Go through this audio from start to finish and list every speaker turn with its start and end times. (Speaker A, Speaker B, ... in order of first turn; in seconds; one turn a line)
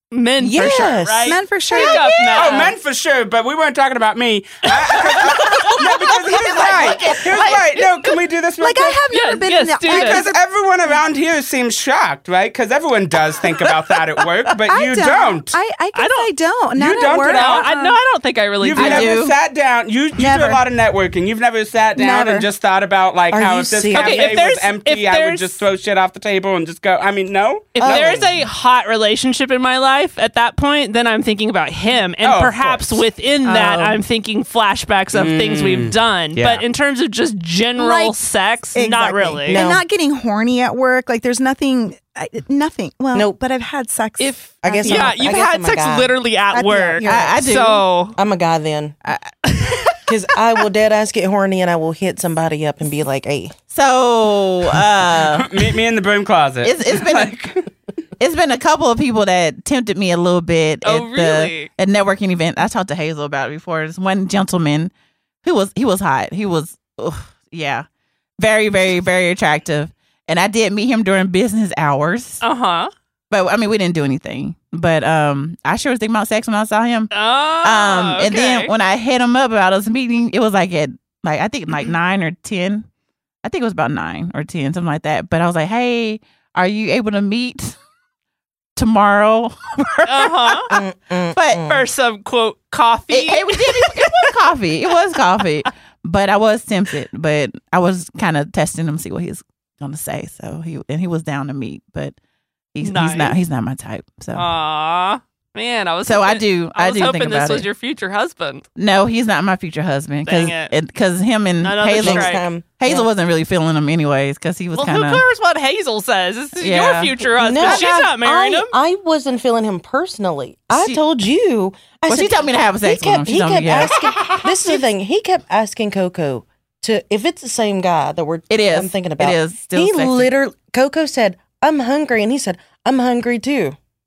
Speaker A: 0.1-2.8
Speaker B: 0.4-1.4
Speaker C: 1.2-2.1
Speaker D: 1.8-2.4
Speaker E: 2.4-9.0
Speaker D: 5.0-7.8
Speaker A: 5.4-5.7
Speaker C: 8.6-11.0
Speaker A: 9.1-10.3
Speaker E: 9.9-15.6
Speaker C: 14.7-18.0
Speaker A: 15.9-16.3
Speaker E: 16.8-17.7
Speaker A: 17.3-19.1
Speaker E: 18.6-28.3
Speaker D: 18.8-19.4
Speaker C: 20.2-20.6
Speaker C: 22.0-22.5
Speaker B: 23.3-24.4
Speaker A: 23.9-25.6
Speaker A: 27.8-39.6
Speaker B: 27.8-28.3
Speaker E: 32.2-33.0
Speaker B: 33.5-34.0
Speaker E: 35.1-36.6
Speaker C: 37.8-38.2
Speaker C: 38.8-45.2
Speaker B: 39.5-39.8
Speaker A: 44.2-48.2
Speaker B: 44.6-46.2
Speaker C: 46.5-47.4
Speaker D: 47.0-47.8
Speaker B: 48.2-49.0
Speaker A: 49.5-50.0
Speaker B: 50.1-53.6
Speaker D: 53.7-55.5
Speaker E: 55.4-57.5
Speaker D: 56.6-57.5
Speaker D: 58.2-64.9
Speaker A: 60.8-61.7
Speaker D: 65.4-67.9
Speaker D: 68.4-72.4
Speaker A: 72.4-72.9
Speaker D: 73.3-82.9
Speaker A: 77.1-78.7
Speaker D: 83.4-87.8
Speaker D: 88.8-91.7
Speaker A: 90.1-90.7
Speaker B: 90.7-91.9
Speaker A: 91.6-94.3
Speaker D: 93.1-102.2
Speaker D: 102.7-104.5
Speaker A: 102.8-103.4
Speaker A: 104.3-108.7
Speaker D: 106.1-107.7
Speaker D: 108.8-115.2
Speaker A: 110.2-110.7
Speaker A: 111.6-112.5
Speaker B: 111.9-113.1
Speaker A: 114.7-118.8
Speaker D: 116.6-117.9
Speaker B: 117.3-133.8
Speaker D: 122.1-123.9
Speaker D: 128.5-130.3